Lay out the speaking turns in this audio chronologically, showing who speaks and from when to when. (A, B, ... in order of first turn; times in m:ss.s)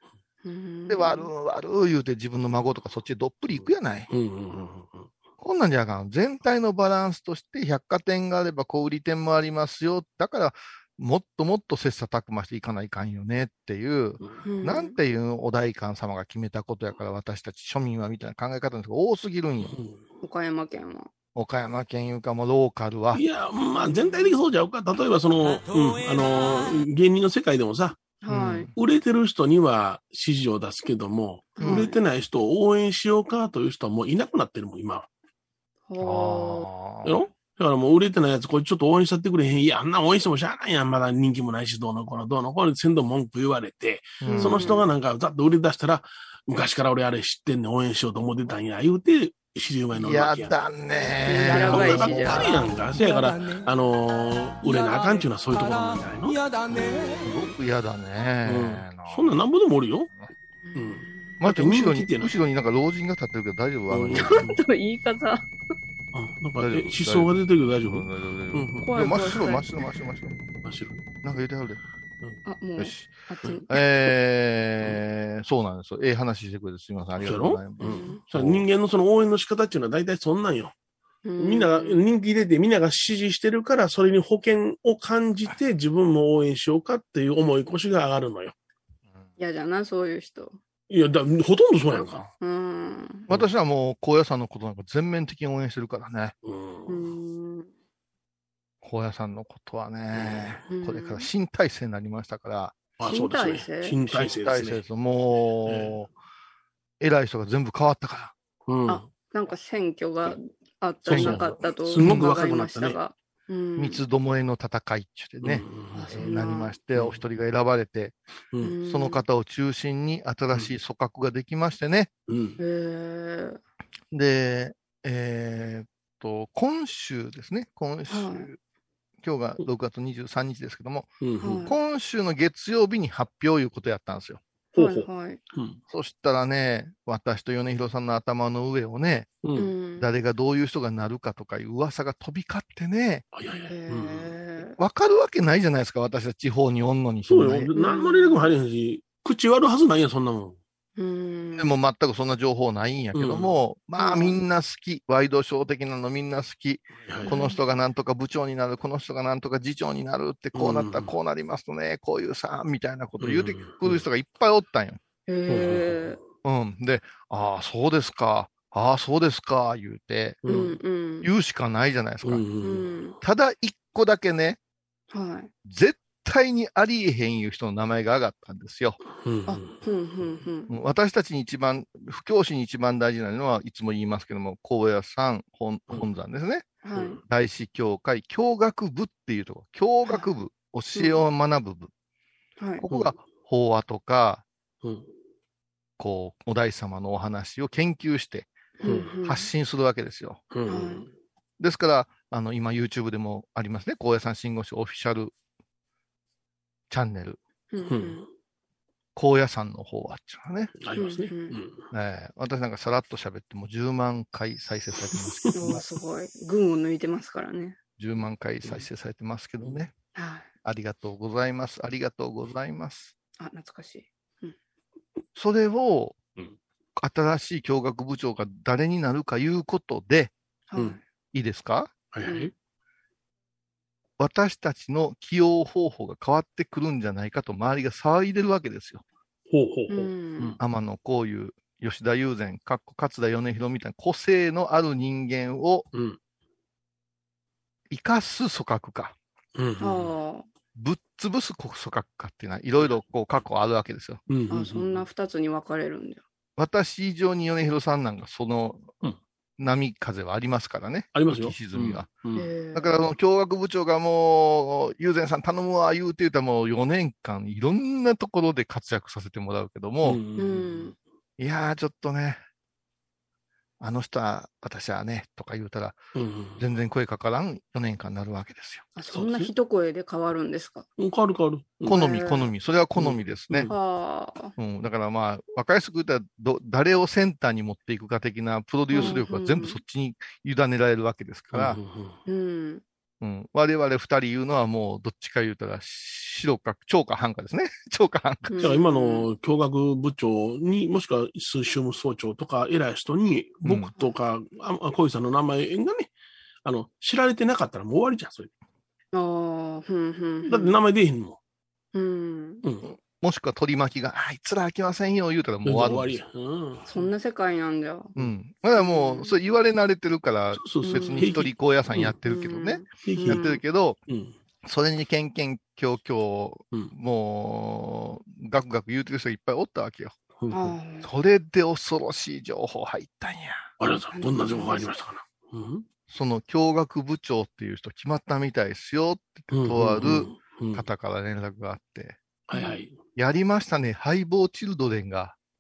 0:00.4-0:01.3 A
0:00.9-0:04.1 B
0:03.5-0:05.1 C
0:05.4-0:19.8 B
0:14.4-0:15.0 A
0:19.6-0:20.0 C
0:20.2-0:21.1 A
0:21.4-0:23.2 B
0:23.1-0:28.2 C
0:28.2-0:28.7 A
0:28.3-0:28.7 B
0:28.8-0:35.1 C
0:31.6-0:32.0 A
0:31.6-0:31.9 B
0:35.9-0:36.7 A
0:36.0-0:37.2 B
0:37.0-0:50.5 C
0:44.2-0:44.7 B
0:44.3-0:44.9 A
0:49.9-0:52.7 B
0:51.2-0:52.5 A
0:51.4-0:56.5 C
0:56.9-0:57.2 A
0:57.2-0:59.4 B
0:58.4-1:00.1 C
1:00.6-1:01.4 A
1:00.8-1:02.3 C
1:01.4-1:04.5 B
1:03.9-1:04.6 C
1:04.2-1:05.4 A
1:06.1-1:09.4 C
1:06.6-1:10.4 B
1:08.8-1:09.6 A
1:10.6-1:11.1 C
1:11.2-1:11.8 B
1:12.4-1:13.8 A
1:12.8-1:18.7 B
1:17.2-1:20.8 C
1:17.8-1:18.2 A
1:21.2-1:22.0 A
1:21.4-1:28.6 C
1:29.4-1:30.6 A
1:30.9-1:32.3 C
1:32.4-1:33.3 A
1:33.3-1:36.4 B
1:36.4-1:37.2 C
1:36.9-1:37.7 A
1:38.8-1:42.8 B
1:40.1-1:40.6 C
1:40.7-1:41.3 A
1:43.0-1:44.8 C
1:43.1-1:44.0 A
1:44.1-1:46.1 B
1:45.7-1:46.0 C
1:47.0-1:48.4 B
1:48.7-1:49.1 C
1:48.9-1:54.0 A
1:51.1-1:52.3 B
1:51.1-1:53.0 C
1:53.8-1:58.2 B
1:55.4-1:56.2 C
1:55.9-1:56.8 A
1:58.6-1:59.2 A
1:58.8-2:02.1 B
2:02.3-2:02.6 C
2:02.6-2:03.6 A
2:04.1-2:08.6 B
2:08.1-2:08.5 A
2:09.2-2:14.4 B
2:11.2-2:11.7 C
2:11.4-2:11.8 A
2:14.7-2:15.8 C
2:14.8-2:15.4 A
2:15.9-2:19.3 B
2:19.4-2:19.7 C
2:19.6-2:20.1 A
2:20.0-2:23.2 B
2:23.3-2:24.4 C
2:23.7-2:24.8 A
2:24.8-2:27.7 B
2:27.3-2:30.6 C
2:27.8-2:28.5 A
2:31.0-2:31.8 A
2:31.6-2:45.0 B
2:33.1-2:33.6 C
2:34.0-2:34.4 A
2:37.1-2:37.4 C
2:37.2-2:37.6 A
2:40.6-2:41.1 C
2:43.2-2:44.0 C
2:45.3-2:46.2 A
2:45.5-2:46.2 C
2:46.4-2:50.4 B
2:50.4-2:50.8 C
2:50.5-2:51.3 A
2:51.2-2:52.5 B
2:52.2-2:53.0 C
2:52.6-2:53.2 A
2:53.2-2:54.6 B
2:55.1-2:55.5 A
2:55.6-2:59.0 B
2:59.2-2:59.8 C
2:59.5-3:00.7 A
3:00.7-3:11.9 B
3:06.8-3:07.2 A
3:07.0-3:07.2 C
3:10.0-3:10.3 A
3:11.0-3:11.2 A
3:12.6-3:12.9 A
3:12.8-3:14.4 B
3:12.9-3:13.2 C
3:14.8-3:15.1 C
3:16.0-3:18.5 B
3:18.8-3:19.5 A
3:18.8-3:19.1 C
3:19.2-3:20.4 B
3:20.5-3:21.1 C
3:20.7-3:21.1 A
3:21.6-3:25.3 B
3:26.9-3:27.4 B
3:27.7-3:28.2 A
3:27.8-3:28.3 C
3:29.2-3:31.2 B
3:30.8-3:31.8 C
3:31.0-3:31.6 A
3:31.9-3:35.8 B
3:35.2-3:35.8 C
3:35.5-3:37.8 A
3:38.0-3:39.9 B
3:40.2-3:40.5 A
3:40.6-3:43.2 B
3:43.4-3:44.6 A
3:45.4-3:46.2 B
3:47.0-3:50.3 B
3:50.7-3:51.0 A
3:51.3-3:52.0 B
3:52.1-3:52.5 C
3:52.2-3:52.5 A
3:54.2-3:59.0 B
3:59.5-4:00.6 C
3:59.9-4:00.6 A
4:00.6-4:05.9 B
4:05.9-4:06.2 C
4:07.9-4:09.2 B
4:09.6-4:10.2 C
4:09.8-4:10.5 A
4:10.8-4:14.2 B
4:14.3-4:15.0 C
4:14.5-4:16.2 A
4:16.6-4:18.9 B
4:19.6-4:22.1 B
4:21.1-4:22.5 C
4:22.4-4:23.0 A
4:22.7-4:30.2 B
4:30.0-4:30.9 C
4:30.4-4:30.9 A
4:31.4-4:32.4 B
4:33.8-4:36.0 B
4:36.2-4:36.6 C
4:36.6-4:38.9 B
4:39.0-4:40.9 A
4:39.1-4:39.5 C
4:41.0-4:42.0 C
4:41.8-4:43.7 B
4:41.9-4:42.5 A
4:43.0-4:43.7 C
4:43.7-4:44.5 A
4:44.6-4:51.8 B
4:48.9-4:49.8 A
4:51.5-4:52.2 C
4:52.3-4:52.8 A
4:53.2-4:58.6 B
4:58.5-4:59.3 A
4:58.6-5:06.1 C
5:03.6-5:03.9 B
5:06.6-5:08.5 C
5:09.1-5:10.8 A
5:10.5-5:11.4 C
5:11.9-5:12.6 A
5:12.6-5:12.9 C
5:12.9-5:16.2 B
5:15.6-5:17.1 C
5:16.9-5:18.1 A
5:18.2-5:24.0 B
5:18.8-5:19.3 A
5:20.6-5:22.2 C
5:20.8-5:21.4 A
5:22.2-5:23.6 A
5:23.0-5:23.4 C
5:24.1-5:24.4 C
5:24.6-5:30.2 B
5:30.4-5:30.8 C
5:30.5-5:31.1 A
5:31.0-5:33.6 B
5:33.8-5:35.9 C
5:34.1-5:34.9 A
5:36.1-5:42.2 B
5:39.5-5:40.8 C
5:42.5-5:43.0 C
5:42.5-5:42.8 A
5:43.2-5:45.4 B